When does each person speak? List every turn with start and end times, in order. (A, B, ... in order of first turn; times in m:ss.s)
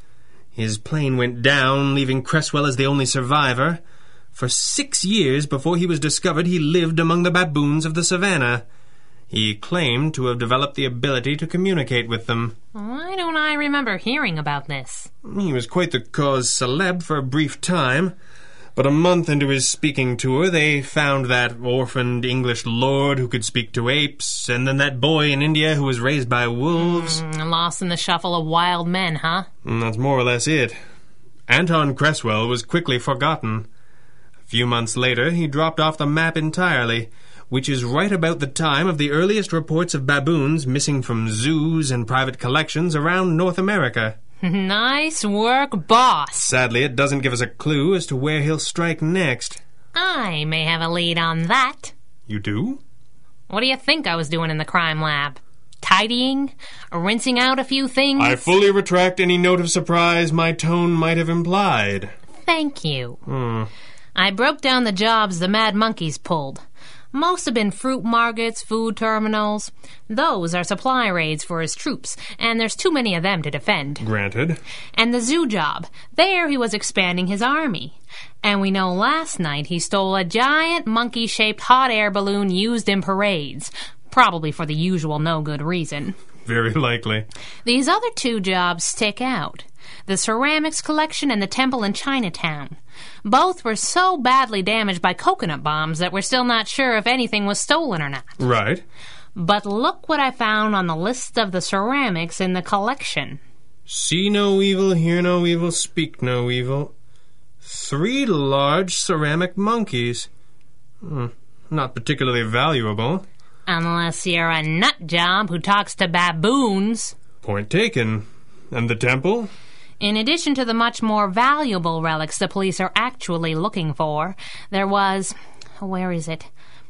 0:00.6-0:03.8 A
0:04.3-0:08.7 A
0:09.3-0:12.6 A
0:12.7-0:15.1 B
0:15.2-0:18.2 A
0:18.8-0:27.2 A
0:26.8-0:29.5 B
0:29.6-0:30.8 A
0:31.5-0:33.7 A
0:34.5-0:44.2 A
0:44.4-0:46.5 B
0:46.4-0:49.6 A
0:50.0-0:51.9 B
0:52.3-0:52.8 A
0:53.5-0:58.5 B
0:58.2-1:02.1 A
1:02.4-1:03.2 B
1:03.3-1:03.7 A
1:04.2-1:06.6 B
1:07.1-1:14.0 B
1:14.0-1:14.6 A
1:15.0-1:26.2 B
1:26.4-1:27.3 A
1:27.6-1:38.3 B
1:38.4-1:38.8 A
1:39.4-1:43.4 B
1:43.9-1:46.9 A
1:47.6-1:50.3 A
1:51.0-1:53.3 A
1:53.7-1:57.2 B
1:57.4-1:59.5 A
2:00.0-2:06.5 B